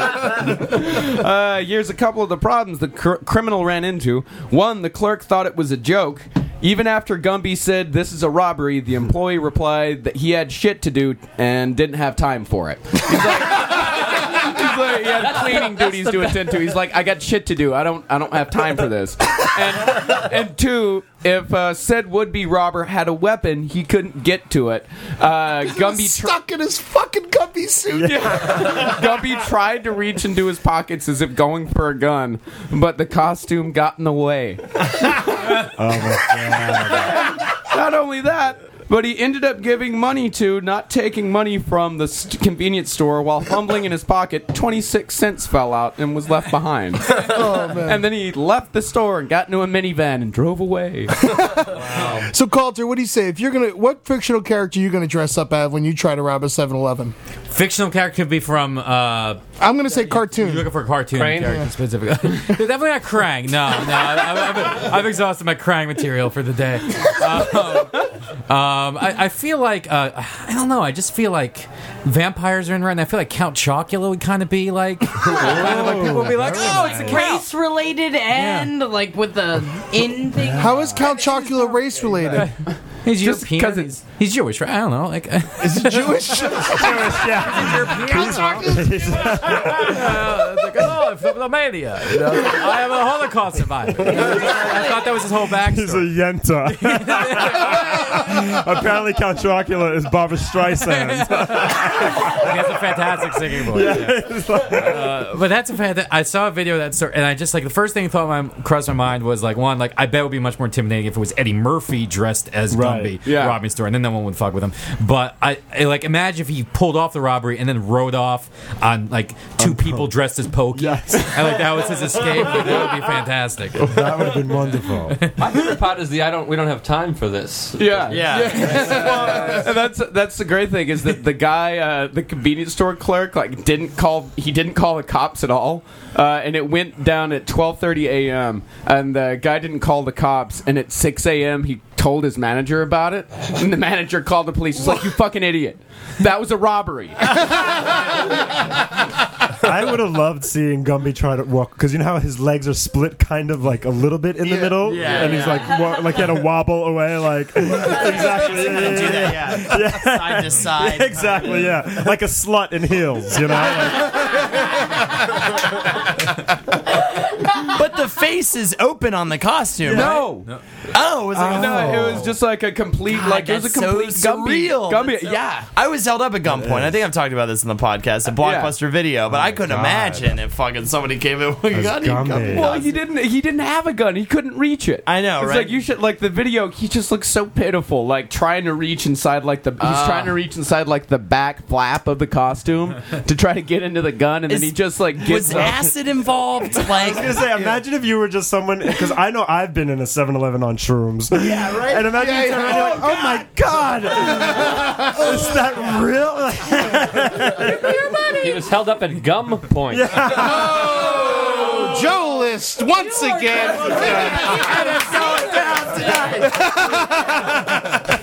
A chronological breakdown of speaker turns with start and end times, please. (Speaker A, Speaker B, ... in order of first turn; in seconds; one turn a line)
Speaker A: 0.2-26.3
Speaker B: 15.4-16.4
Speaker C: 25.5-28.7
Speaker D: 27.9-28.8
Speaker A: 28.1-34.6
Speaker D: 35.6-37.2
Speaker A: 36.9-51.1
Speaker C: 47.1-48.0
Speaker C: 51.1-57.1
Speaker E: 51.9-52.2
Speaker F: 57.5-59.4
Speaker C: 59.6-60.8
Speaker F: 60.0-77.4
Speaker B: 61.1-61.6
Speaker C: 61.4-61.7
Speaker A: 67.4-68.0
Speaker D: 75.2-77.2
Speaker G: 76.4-82.0
Speaker F: 78.3-78.7
Speaker D: 80.3-81.0
Speaker C: 80.6-82.5
Speaker F: 83.0-86.1
Speaker A: 83.1-84.0
Speaker C: 85.6-87.3
Speaker D: 86.5-90.5
Speaker F: 87.2-96.1
Speaker C: 88.1-89.0
Speaker D: 94.0-94.4
Speaker G: 94.0-95.1
Speaker D: 95.6-105.2
Speaker F: 96.7-98.2
Speaker F: 100.8-124.0
Speaker D: 112.7-113.2
Speaker A: 113.2-113.6
Speaker D: 119.6-120.1
Speaker D: 120.7-123.0
Speaker D: 123.7-125.2
Speaker F: 125.1-125.4
Speaker B: 125.4-129.2
Speaker A: 127.8-147.5
Speaker E: 128.1-129.7
Speaker C: 128.9-129.3
Speaker D: 149.6-164.6
Speaker E: 154.6-155.8
Speaker G: 155.4-156.1
Speaker E: 157.8-161.8
Speaker E: 167.6-170.3
Speaker A: 169.8-170.5
Speaker D: 169.8-170.2
Speaker E: 170.9-172.2
Speaker D: 171.3-172.4
Speaker A: 171.4-175.7
Speaker E: 173.1-182.9
Speaker D: 176.4-177.0
Speaker A: 178.3-178.7
Speaker D: 179.3-180.3
Speaker D: 181.7-182.7
Speaker A: 182.5-195.9
Speaker E: 185.0-185.8
Speaker E: 189.8-190.4
Speaker E: 194.5-197.7
Speaker D: 196.8-208.2
Speaker C: 202.1-203.2
Speaker C: 204.3-205.2
Speaker G: 207.6-208.6
Speaker B: 208.3-210.4
Speaker D: 209.9-211.0
Speaker C: 210.4-218.0
Speaker G: 212.9-216.4